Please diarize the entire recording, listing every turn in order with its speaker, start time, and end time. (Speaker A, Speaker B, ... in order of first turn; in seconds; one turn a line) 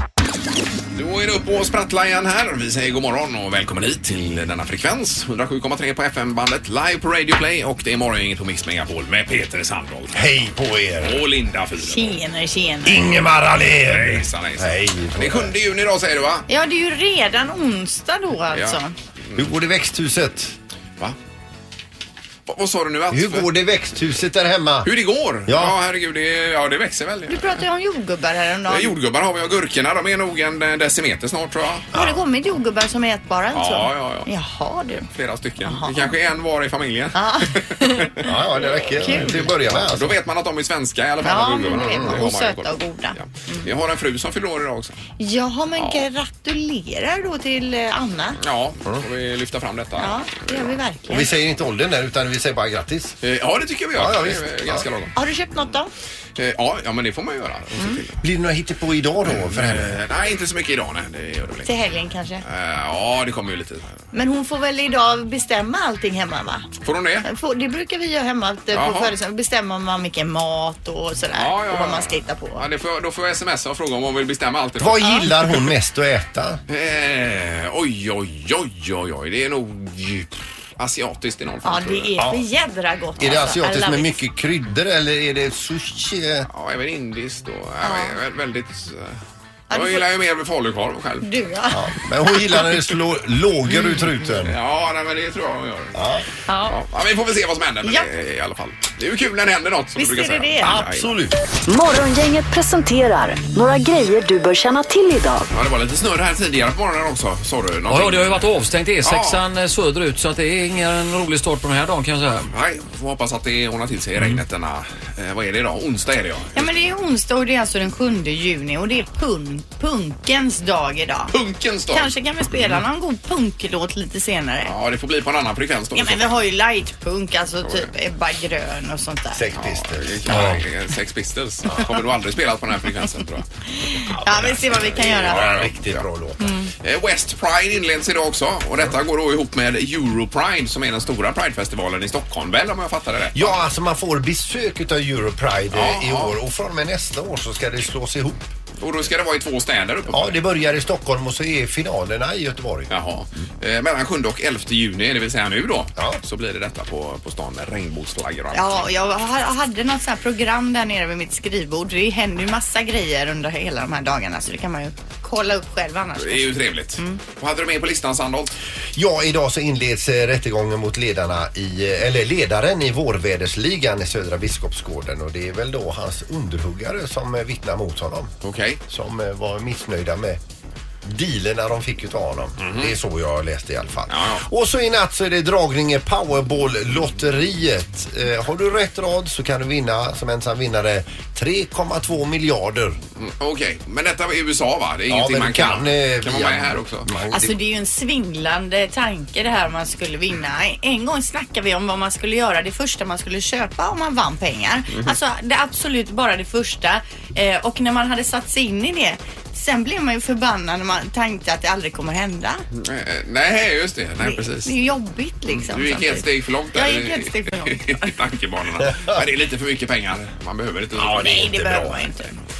Speaker A: 0.9-10.3
Speaker B: 10.1-11.2
Speaker A: 11.0-12.2
Speaker C: 11.8-13.1
Speaker B: 12.8-15.5
Speaker A: 13.9-16.4
Speaker C: 16.5-18.9
Speaker A: 18.5-18.8
Speaker B: 19.4-20.6
Speaker A: 22.5-23.5
Speaker B: 23.1-24.9
Speaker A: 24.8-27.6
Speaker B: 25.5-25.8
Speaker C: 27.3-28.9
Speaker A: 28.7-31.9
Speaker B: 31.9-32.2
Speaker C: 31.9-35.1
Speaker A: 33.5-34.3
Speaker A: 35.1-45.0
Speaker C: 35.6-36.1
Speaker C: 37.1-38.2
Speaker B: 38.2-40.2
Speaker C: 39.0-39.4
Speaker C: 41.2-43.7
Speaker B: 41.7-42.2
Speaker C: 45.2-48.4
Speaker A: 45.8-46.0
Speaker A: 48.4-50.8
Speaker C: 50.0-51.3
Speaker B: 51.1-53.2
Speaker A: 53.2-55.1
Speaker B: 53.9-54.9
Speaker C: 55.1-55.9
Speaker A: 56.4-58.2
Speaker C: 57.8-58.0
Speaker B: 58.2-60.0
Speaker A: 59.2-61.7
Speaker C: 61.6-62.4
Speaker A: 62.4-64.0
Speaker C: 64.1-66.7
Speaker A: 66.8-67.3
Speaker C: 67.2-72.6
Speaker A: 68.7-69.1
Speaker A: 71.3-75.7
Speaker B: 74.8-76.6
Speaker C: 75.0-75.3
Speaker A: 76.7-82.1
Speaker C: 81.6-84.2
Speaker B: 83.2-86.5
Speaker A: 86.5-89.2
Speaker C: 87.8-88.2
Speaker C: 89.7-90.1
Speaker A: 89.7-91.3
Speaker C: 91.2-91.8
Speaker B: 91.7-94.5
Speaker A: 94.4-96.0
Speaker B: 95.9-96.2
Speaker C: 96.5-96.8
Speaker A: 96.7-101.1
Speaker C: 100.0-100.8
Speaker B: 100.6-101.4
Speaker D: 101.6-105.5
Speaker A: 105.5-109.4
Speaker E: 107.9-112.5
Speaker A: 112.5-116.7
Speaker C: 116.5-121.3
Speaker A: 121.3-122.8
Speaker C: 121.9-124.7
Speaker A: 124.6-126.4
Speaker C: 125.9-129.5
Speaker A: 127.6-127.9
Speaker B: 129.3-130.7
Speaker A: 129.6-133.5
Speaker C: 133.8-135.6
Speaker A: 134.2-136.1
Speaker B: 134.3-136.5
Speaker C: 136.4-136.7
Speaker A: 136.8-143.6
Speaker B: 143.3-148.5
Speaker A: 145.7-146.3
Speaker A: 148.8-150.4
Speaker B: 150.1-152.9
Speaker A: 152.9-158.9
Speaker C: 158.5-167.2
Speaker A: 166.2-168.5
Speaker B: 168.9-178.3
Speaker A: 178.4-178.8
Speaker B: 178.9-180.4
Speaker B: 181.0-193.0
Speaker A: 182.6-182.9
Speaker A: 184.1-184.4
Speaker A: 193.2-197.1
Speaker B: 195.1-197.6
Speaker C: 197.3-212.6
Speaker A: 212.8-214.8
Speaker C: 214.2-218.1
Speaker A: 215.5-221.3
Speaker B: 220.9-222.1
Speaker C: 221.1-222.3